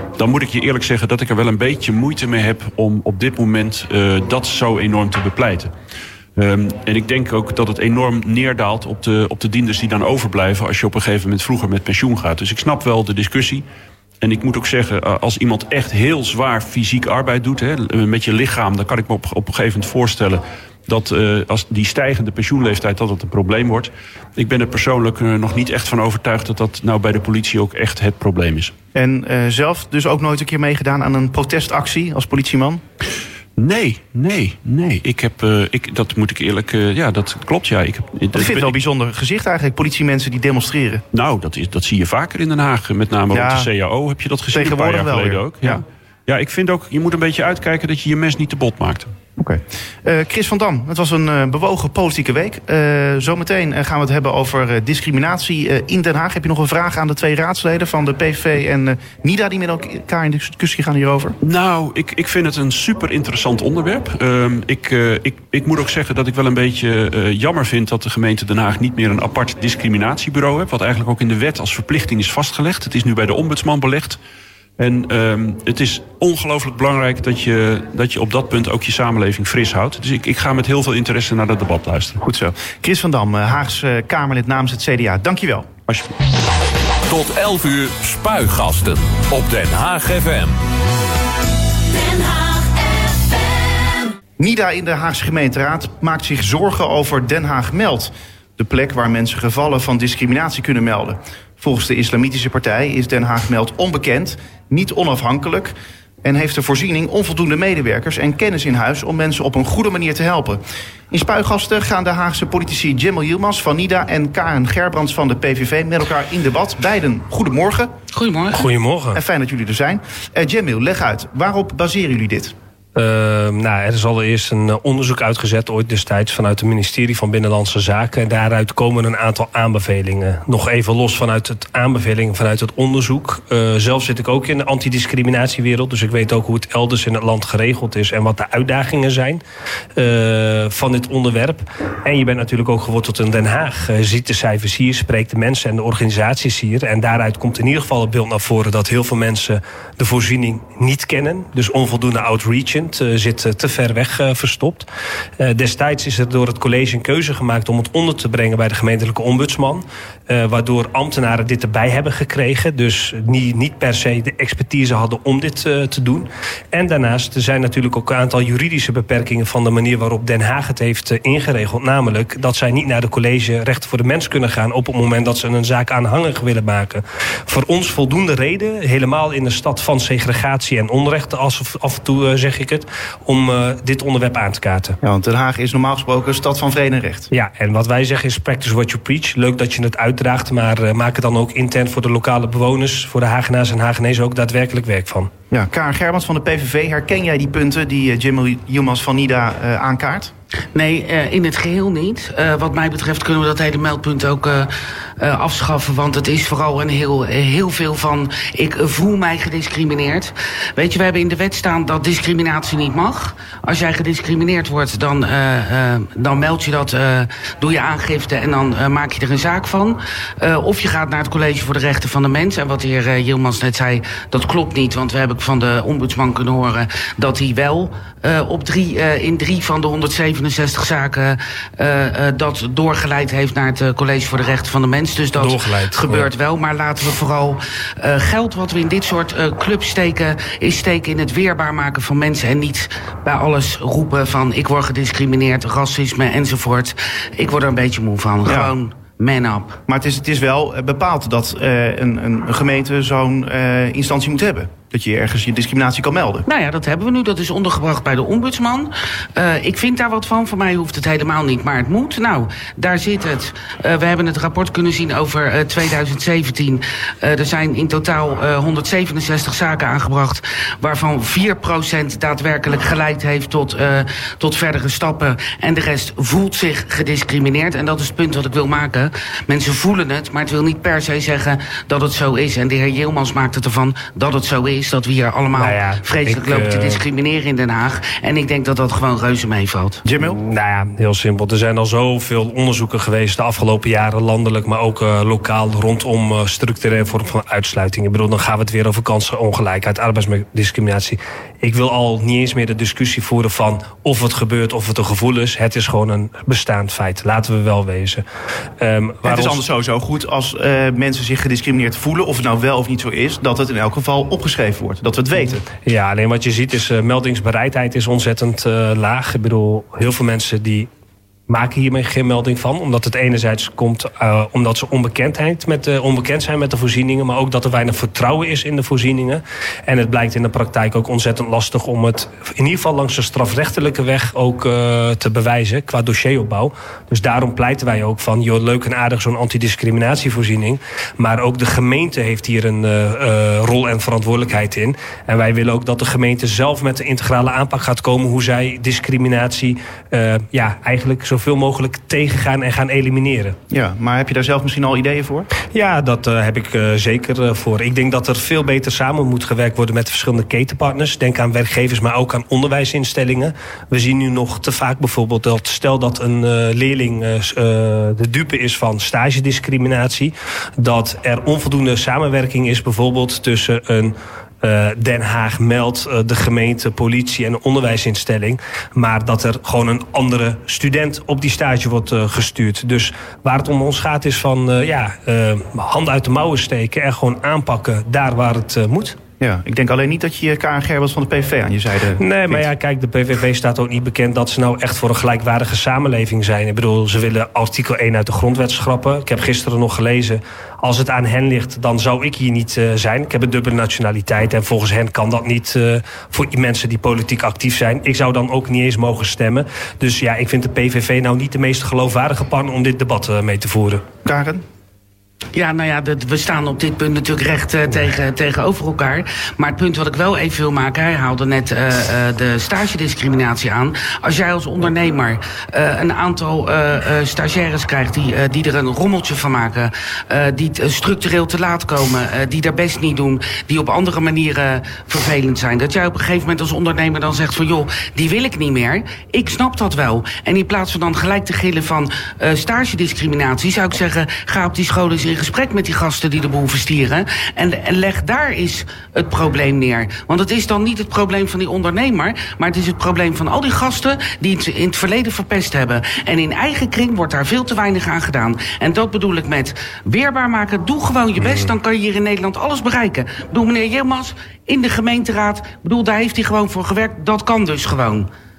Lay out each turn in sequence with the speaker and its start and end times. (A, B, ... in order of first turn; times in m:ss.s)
0:00.2-0:05.7 A
0:06.4-0:13.6 A
0:14.2-0:28.7 A
0:28.9-0:32.8 B
0:33.6-0:38.8 A
0:38.3-0:41.0 B
0:41.1-0:49.1 A
0:43.3-0:43.7 B
0:44.5-0:45.8 B
0:49.4-1:01.4 B
1:01.4-1:14.2 A
1:14.8-1:22.2 A
1:22.2-1:25.7 B
1:27.1-1:30.5 C
1:31.9-1:33.2 C
1:34.4-1:45.7 B
1:46.2-1:57.9 B
1:58.1-1:58.7 D
1:58.5-1:59.2 E
1:59.1-2:02.5 B
2:03.0-2:19.4 E
2:20.0-2:34.9 E
2:35.4-3:05.0 E
3:05.0-3:07.3 B
3:07.3-3:15.3 E
3:15.5-3:20.3 B
3:20.7-4:09.8 D
3:55.4-3:56.3 E
4:08.4-4:08.7 B
4:09.9-4:16.4 B
4:16.5-4:50.0 D
4:45.6-4:47.0 E
4:50.0-4:50.4 B
4:50.2-5:08.2 E
5:08.8-5:09.6 E
5:09.2-5:15.6 B
5:15.7-5:20.9 E
5:21.5-5:53.6 E
5:53.7-5:55.5 B
5:55.7-6:29.2 E
6:29.4-6:32.7 B
6:32.2-6:54.0 E
6:54.2-6:54.6 B
6:55.6-7:48.3 D
7:41.4-7:41.7 E